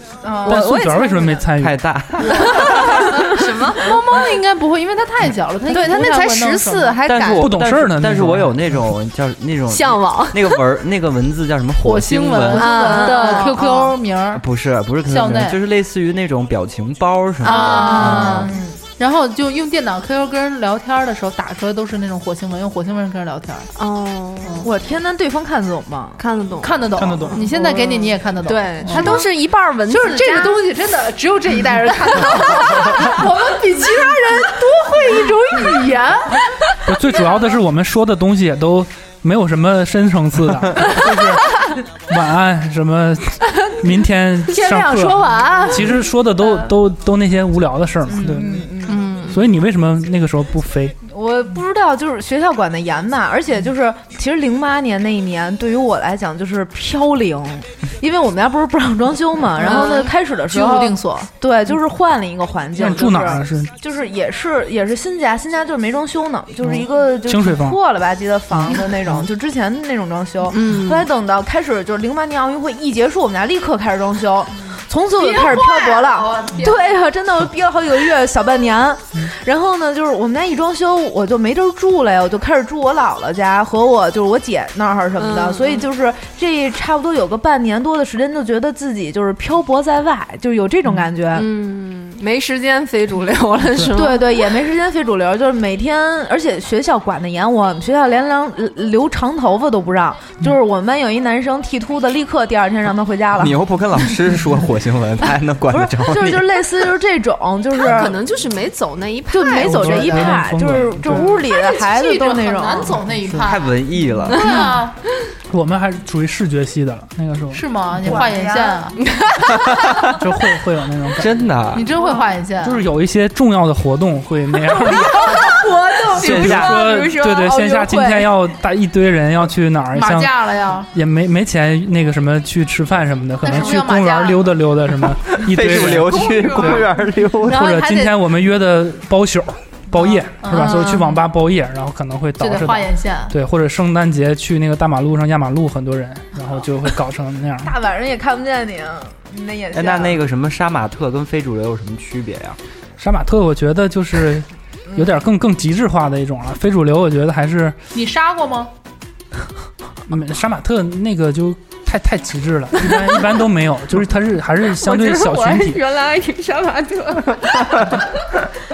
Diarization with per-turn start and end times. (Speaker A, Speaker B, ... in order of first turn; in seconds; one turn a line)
Speaker A: 0.2-0.8
Speaker B: 0.4-1.8
Speaker C: 0.5-1.4
Speaker D: 1.5-2.5
Speaker C: 2.3-4.0
Speaker E: 2.3-7.0
Speaker C: 5.7-7.5
Speaker D: 7.0-13.1
Speaker B: 7.2-8.6
Speaker C: 9.7-10.7
Speaker E: 11.8-14.4
Speaker C: 12.5-13.9
Speaker D: 14.3-18.5
Speaker E: 15.1-15.6
Speaker C: 17.4-18.5
Speaker E: 17.4-23.7
Speaker A: 18.4-18.8
Speaker C: 23.8-24.7
Speaker E: 24.4-24.7
Speaker A: 24.6-26.2
Speaker C: 26.2-30.6
Speaker E: 26.6-29.3
Speaker B: 27.0-27.5
Speaker E: 29.9-37.5
Speaker B: 36.9-41.5
Speaker B: 42.1-48.7
Speaker E: 44.5-46.7
Speaker A: 48.1-49.0
Speaker C: 48.9-49.4
Speaker B: 49.2-50.9
Speaker A: 51.0-91.5
Speaker E: 59.6-61.3
Speaker C: 59.6-60.0
Speaker B: 62.8-63.7
Speaker B: 66.6-67.8
Speaker C: 70.5-71.1
Speaker E: 75.2-77.0
Speaker C: 85.2-85.8
Speaker C: 91.3-94.5
Speaker A: 93.9-103.5
Speaker D: 103.4-106.5
Speaker A: 105.7-108.2
Speaker C: 107.8-110.4
Speaker A: 109.3-113.0
Speaker B: 109.5-111.3
Speaker E: 111.1-114.9
Speaker D: 113.4-114.3
Speaker C: 114.3-114.8
Speaker B: 115.5-118.2
Speaker E: 117.5-119.0
Speaker A: 118.0-119.0
Speaker C: 119.0-119.8
Speaker D: 119.7-120.1
Speaker B: 120.2-121.5
Speaker D: 121.2-121.9
Speaker E: 121.7-122.8
Speaker B: 122.6-125.5
Speaker A: 124.8-128.3
Speaker D: 126.1-126.9
Speaker B: 126.2-130.3
Speaker C: 126.3-127.5
Speaker E: 129.9-130.9
Speaker B: 130.9-136.9
Speaker E: 133.4-134.5
Speaker D: 135.3-137.6
Speaker E: 136.4-136.8
Speaker E: 137.4-138.3
Speaker B: 137.5-147.7
Speaker E: 139.9-141.2
Speaker E: 142.4-143.3
Speaker A: 147.6-150.2
Speaker D: 149.7-152.6
Speaker B: 153.0-157.8
Speaker E: 157.9-158.7
Speaker B: 160.1-165.8
Speaker C: 164.8-168.0